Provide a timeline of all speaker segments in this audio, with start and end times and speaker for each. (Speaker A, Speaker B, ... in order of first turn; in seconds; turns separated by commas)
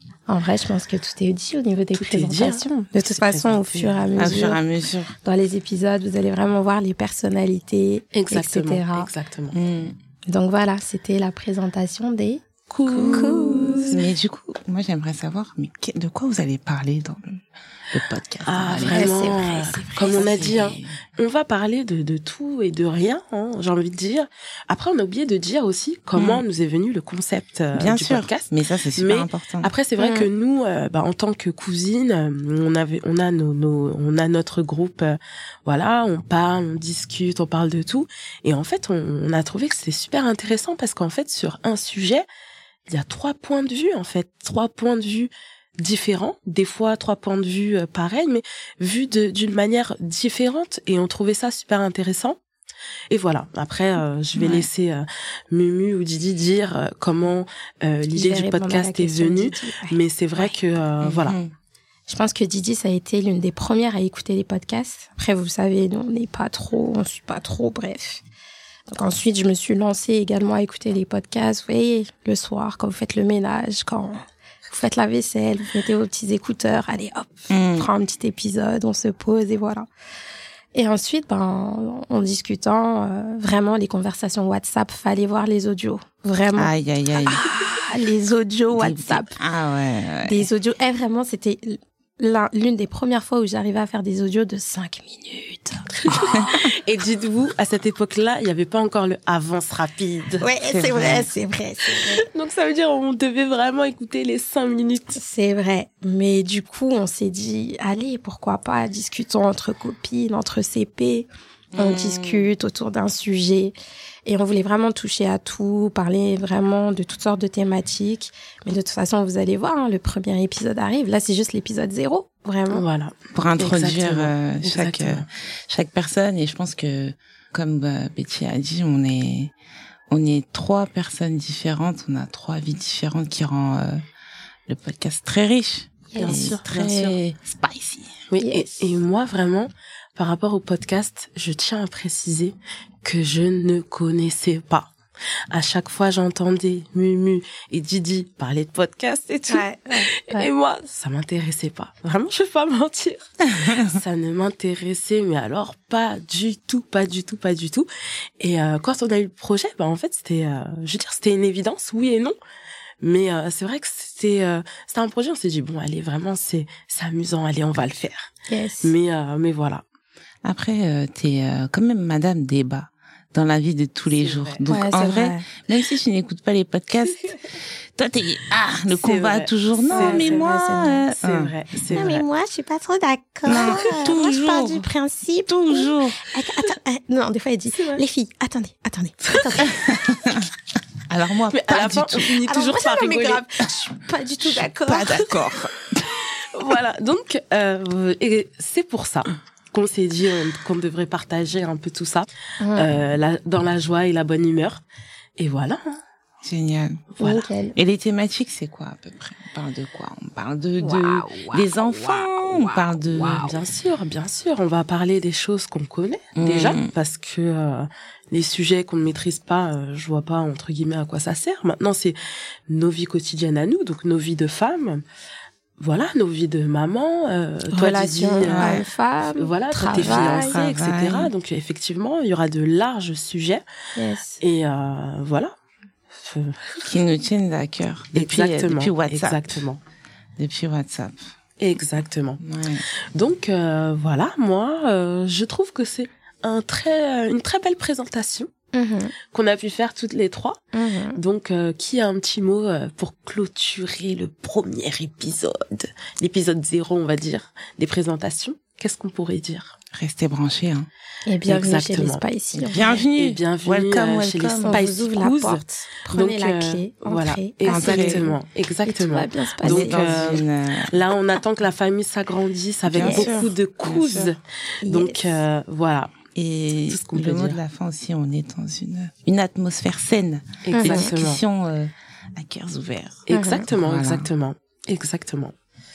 Speaker A: 0.3-4.6, Speaker B: 1.9-4.3, Speaker C: 4.2-5.2, Speaker A: 5.2-9.1, Speaker B: 8.1-9.6, Speaker C: 9.5-9.9, Speaker A: 10.3-14.0, Speaker B: 12.7-14.0, Speaker C: 12.9-17.4, Speaker C: 17.9-21.0, Speaker B: 18.4-42.3, Speaker A: 18.8-20.6, Speaker C: 26.2-26.4, Speaker C: 27.7-29.7, Speaker A: 30.0-30.3, Speaker B: 42.9-52.4, Speaker B: 53.1-61.4, Speaker C: 54.4-54.7, Speaker A: 58.1-60.5, Speaker C: 61.0-61.5, Speaker A: 62.1-68.2, Speaker A: 68.9-79.9, Speaker C: 77.5-77.9, Speaker A: 80.7-86.7, Speaker C: 86.6-87.4, Speaker A: 87.3-89.4, Speaker C: 88.8-90.5, Speaker A: 90.2-96.5, Speaker B: 96.0-100.5, Speaker C: 96.2-96.6, Speaker A: 100.4-102.2, Speaker C: 100.6-101.3, Speaker B: 102.0-105.2, Speaker A: 105.2-113.8, Speaker C: 111.7-112.5, Speaker A: 114.3-122.8, Speaker B: 122.7-125.3, Speaker C: 123.3-129.5, Speaker C: 130.1-134.0, Speaker C: 134.7-138.2, Speaker A: 136.1-136.4, Speaker B: 136.2-137.2, Speaker B: 138.3-144.9, Speaker A: 138.4-138.8, Speaker B: 145.5-157.9, Speaker A: 149.5-150.5, Speaker B: 158.4-162.4, Speaker B: 163.0-168.3, Speaker A: 168.5-168.9, Speaker B: 168.8-169.8, Speaker C: 170.4-182.3, Speaker B: 174.2-174.7, Speaker A: 174.7-175.5, Speaker B: 178.9-180.5, Speaker A: 179.9-181.1, Speaker B: 181.2-182.2, Speaker A: 181.9-189.8, Speaker C: 183.5-184.9, Speaker C: 185.5-186.2, Speaker B: 187.7-188.0, Speaker C: 189.8-190.4, Speaker C: 191.1-192.3, Speaker B: 191.5-193.4, Speaker A: 192.4-195.4, Speaker C: 194.4-196.0, Speaker B: 196.2-204.8, Speaker A: 202.6-203.0, Speaker B: 205.4-206.0, Speaker C: 206.4-207.1, Speaker B: 207.2-207.5, Speaker A: 207.2-207.8, Speaker C: 207.8-213.5, Speaker A: 210.8-212.9, Speaker B: 213.1-225.0, Speaker C: 216.4-216.9, Speaker B: 225.8-233.6, Speaker A: 227.7-230.6, Speaker C: 228.4-228.8, Speaker C: 229.9-231.3, Speaker A: 234.0-234.4, Speaker B: 234.4-235.5, Speaker B: 236.1-236.8, Speaker C: 236.9-239.4, Speaker B: 238.1-239.8, Speaker C: 240.4-241.2, Speaker B: 241.6-242.4, Speaker C: 242.4-242.8, Speaker B: 243.1-248.5, Speaker A: 248.7-249.1, Speaker B: 249.3-250.6, Speaker A: 250.7-251.2, Speaker B: 251.1-259.8, Speaker C: 259.9-260.9, Speaker A: 261.3-262.9, Speaker B: 261.4-276.1, Speaker C: 262.6-264.9, Speaker A: 264.6-270.4, Speaker C: 267.7-268.3, Speaker C: 269.6-270.9, Speaker C: 272.9-274.3, Speaker A: 273.0-273.4, Speaker A: 274.8-275.4, Speaker C: 276.4-284.3, Speaker B: 276.9-277.6, Speaker B: 280.6-281.4, Speaker A: 280.7-281.1, Speaker B: 283.3-285.5, Speaker A: 283.3-283.6